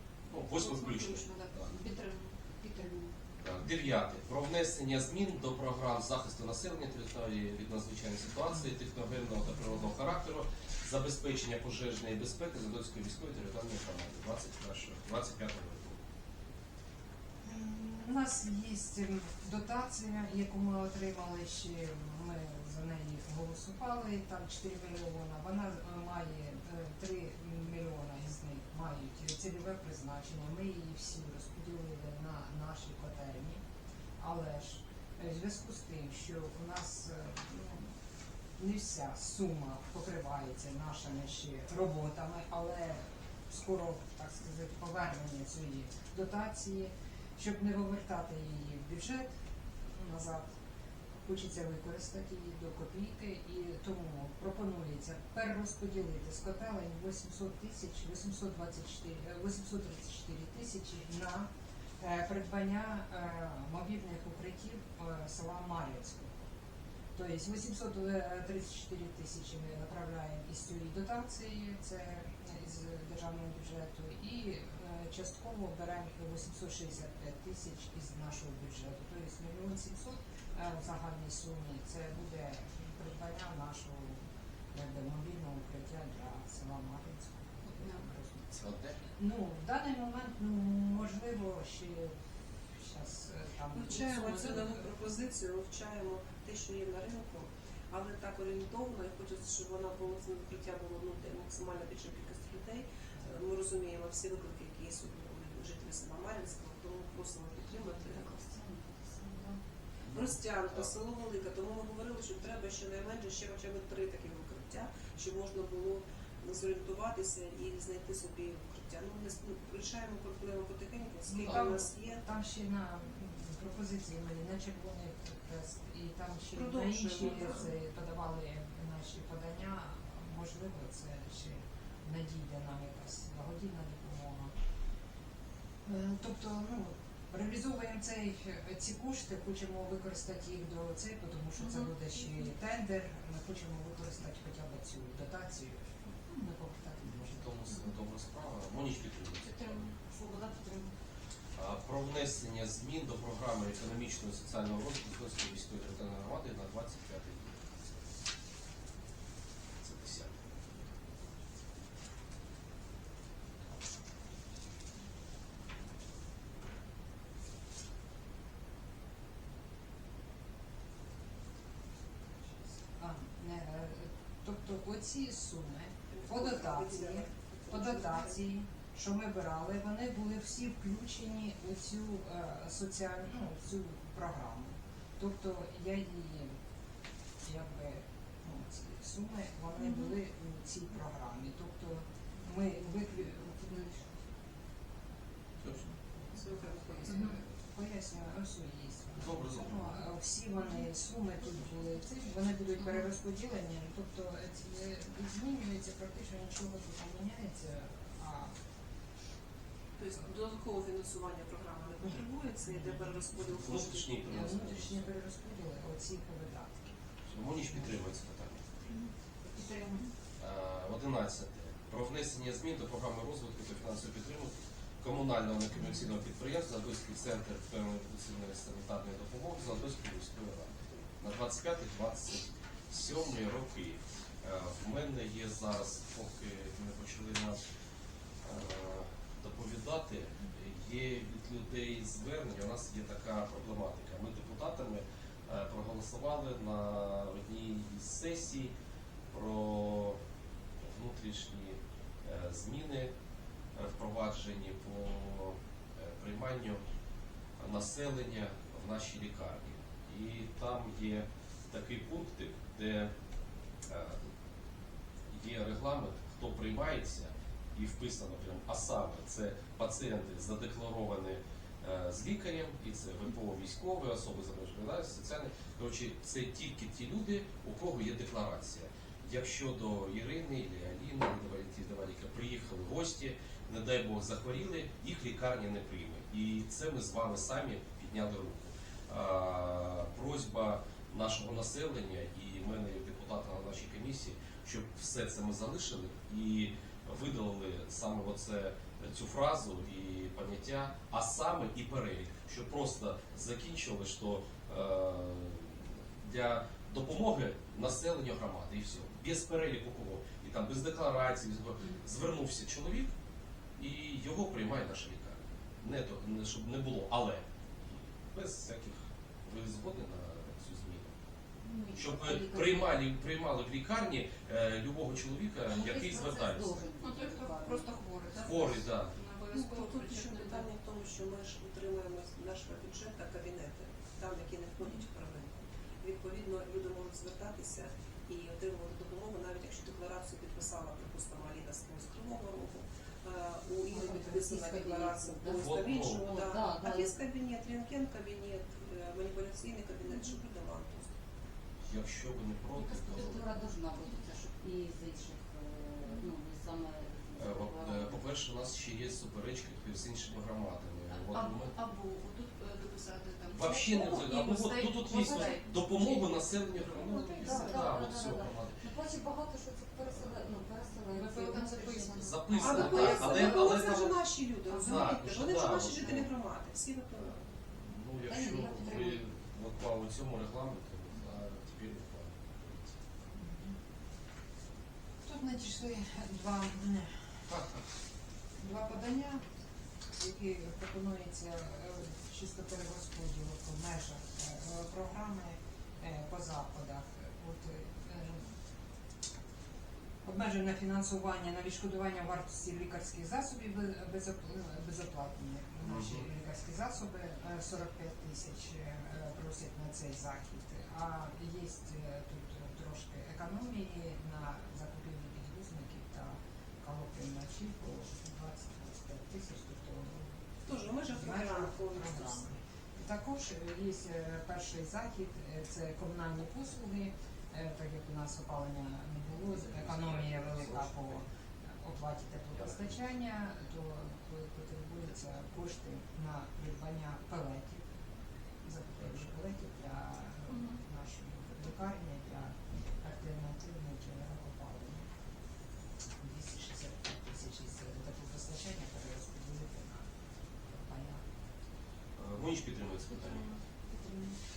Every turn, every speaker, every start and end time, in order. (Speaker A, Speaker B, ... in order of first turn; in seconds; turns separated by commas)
Speaker A: 0.3-1.7, Speaker B: 0.5-3.1, Speaker A: 3.4-16.0, Speaker C: 17.4-33.6, Speaker C: 34.2-37.9, Speaker C: 38.6-49.4, Speaker C: 49.9-50.5, Speaker C: 51.2-66.5, Speaker C: 67.2-88.5, Speaker B: 87.7-88.0, Speaker A: 88.5-89.0, Speaker C: 89.1-92.2, Speaker C: 92.7-94.9, Speaker D: 93.8-108.3, Speaker E: 107.6-109.6, Speaker A: 110.1-110.9, Speaker D: 110.1-122.2, Speaker C: 121.3-134.6, Speaker D: 126.5-127.7, Speaker C: 135.8-147.4, Speaker B: 141.6-141.9, Speaker A: 147.0-149.9, Speaker B: 149.4-150.0, Speaker E: 150.1-150.9, Speaker A: 151.6-157.6, Speaker A: 159.8-160.6, Speaker C: 172.9-186.6, Speaker D: 176.1-178.4, Speaker C: 187.4-193.5, Speaker E: 193.1-194.2, Speaker C: 195.7-208.6, Speaker D: 196.4-197.3, Speaker A: 199.2-199.9, Speaker D: 210.0-214.3, Speaker C: 212.7-213.1, Speaker A: 213.5-215.0, Speaker C: 214.3-217.0, Speaker A: 217.3-218.8, Speaker B: 218.9-220.1, Speaker A: 220.4-237.6, Speaker A: 238.4-248.7, Speaker A: 249.3-250.2, Speaker A: 250.8-253.1, Speaker A: 253.8-256.8, Speaker A: 257.6-263.1, Speaker A: 263.9-264.2, Speaker A: 265.3-313.1, Speaker A: 313.8-317.5, Speaker A: 318.3-321.1, Speaker E: 321.6-323.0, Speaker A: 321.9-326.8, Speaker E: 325.7-327.9, Speaker B: 327.0-330.7, Speaker A: 328.4-329.1, Speaker D: 329.5-351.1, Speaker E: 343.9-347.2, Speaker A: 345.6-346.3, Speaker A: 351.9-353.4, Speaker E: 352.7-358.2, Speaker B: 353.2-353.6, Speaker A: 357.4-361.7, Speaker B: 361.1-368.0, Speaker A: 363.5-368.8, Speaker E: 366.9-373.5, Speaker A: 370.1-370.4, Speaker B: 371.2-373.2, Speaker A: 372.2-376.3, Speaker D: 372.6-377.4, Speaker E: 374.8-375.0, Speaker A: 377.7-382.9, Speaker E: 378.3-379.3, Speaker C: 383.4-383.7, Speaker C: 385.2-387.3, Speaker A: 387.5-387.8, Speaker C: 388.6-389.4, Speaker C: 390.2-398.5, Speaker C: 400.2-420.4, Speaker A: 405.8-406.3, Speaker D: 420.7-422.5, Speaker C: 421.1-437.8, Speaker A: 429.5-431.2, Speaker A: 432.5-433.0, Speaker C: 438.6-445.1, Speaker B: 440.5-440.8, Speaker C: 446.2-450.1, Speaker C: 450.7-451.3, Speaker A: 452.2-453.5, Speaker B: 453.1-454.3